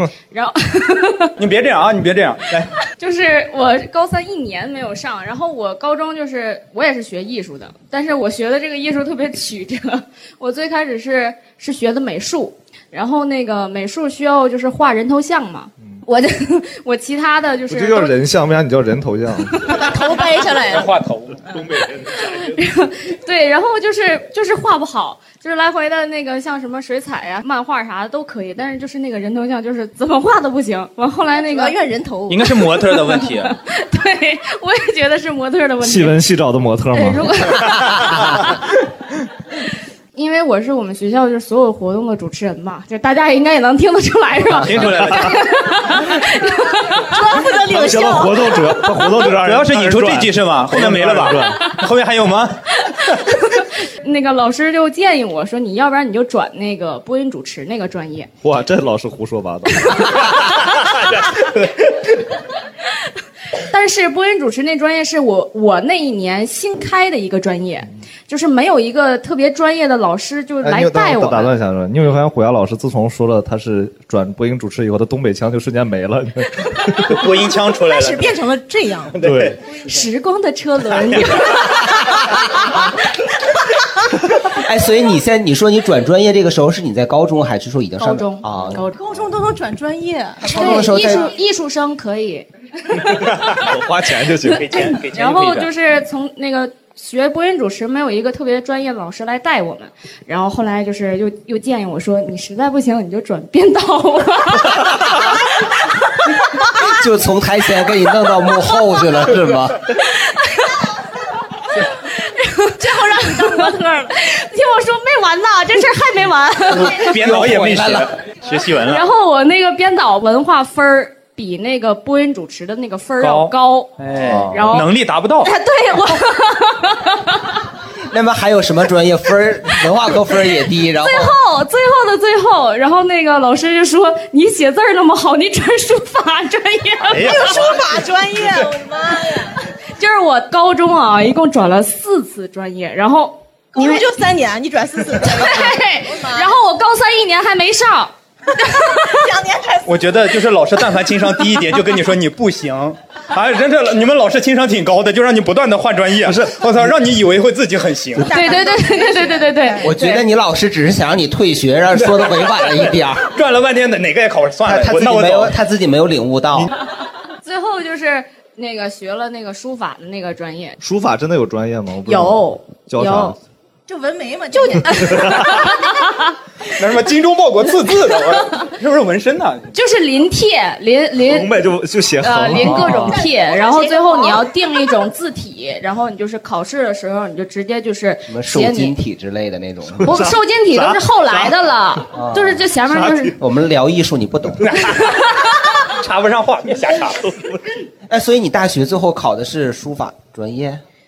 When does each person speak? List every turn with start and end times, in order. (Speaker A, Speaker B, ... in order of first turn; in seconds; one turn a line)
Speaker A: 0.3-1.3
Speaker B: 1.4-2.7
Speaker A: 2.9-18.1
Speaker C: 17.7-19.5
Speaker D: 19.7-20.9
Speaker B: 20.7-21.4
Speaker C: 21.5-22.6
Speaker A: 22.1-31.8
Speaker D: 31.4-32.5
Speaker B: 32.3-33.5
Speaker A: 32.6-36.2
Speaker C: 35.8-38.5
Speaker A: 36.9-38.5
Speaker A: 40.1-47.2
Speaker C: 44.6-45.3
Speaker B: 44.6-45.5
Speaker D: 47.0-49.0
Speaker C: 47.7-51.7
Speaker B: 49.3-53.2
Speaker A: 52.8-58.3
Speaker C: 58.4-60.9
Speaker A: 63.6-71.5
Speaker C: 70.6-77.2
Speaker B: 77.1-78.3
Speaker D: 77.8-79.3
Speaker B: 79.1-79.6
Speaker C: 79.2-79.6
Speaker A: 79.8-82.0
Speaker E: 84.5-88.7
Speaker A: 88.0-89.0
Speaker C: 88.5-88.8
Speaker D: 88.9-91.2
Speaker E: 90.5-91.3
Speaker A: 90.5-93.3
Speaker C: 93.5-94.9
Speaker B: 94.4-95.7
Speaker A: 95.1-105.0
Speaker E: 106.8-109.8
Speaker A: 111.8-117.1
Speaker D: 112.8-114.1
Speaker B: 116.8-119.0
Speaker E: 117.1-118.1
Speaker A: 118.9-124.0
Speaker B: 123.2-125.5
Speaker E: 124.2-124.6
Speaker A: 124.5-124.9
Speaker A: 125.4-127.6
Speaker E: 128.1-131.3
Speaker A: 131.0-137.5
Speaker B: 137.1-138.0
Speaker D: 137.2-139.6
Speaker A: 140.0-144.1
Speaker D: 143.8-146.5
Speaker A: 145.2-149.3
Speaker D: 149.0-150.3
Speaker B: 149.9-158.3
Speaker C: 156.3-156.9
Speaker D: 158.2-160.1
Speaker A: 158.3-159.8
Speaker E: 159.8-163.3
Speaker B: 163.3-165.6
Speaker E: 164.7-166.7
Speaker A: 167.4-170.8
Speaker C: 170.8-173.4
Speaker A: 172.1-173.4
Speaker D: 173.9-175.7
Speaker C: 174.9-175.6
Speaker A: 175.1-175.9
Speaker B: 176.8-179.7
Speaker A: 179.7-181.7
Speaker C: 181.2-183.3
Speaker A: 182.2-189.0
Speaker D: 182.7-184.5
Speaker E: 188.3-190.2
Speaker C: 190.0-191.6
Speaker A: 190.0-193.4
Speaker E: 192.1-192.7
Speaker C: 192.8-193.3
Speaker E: 193.4-194.7
Speaker B: 194.6-195.1
Speaker B: 195.8-197.3
Speaker E: 198.1-200.8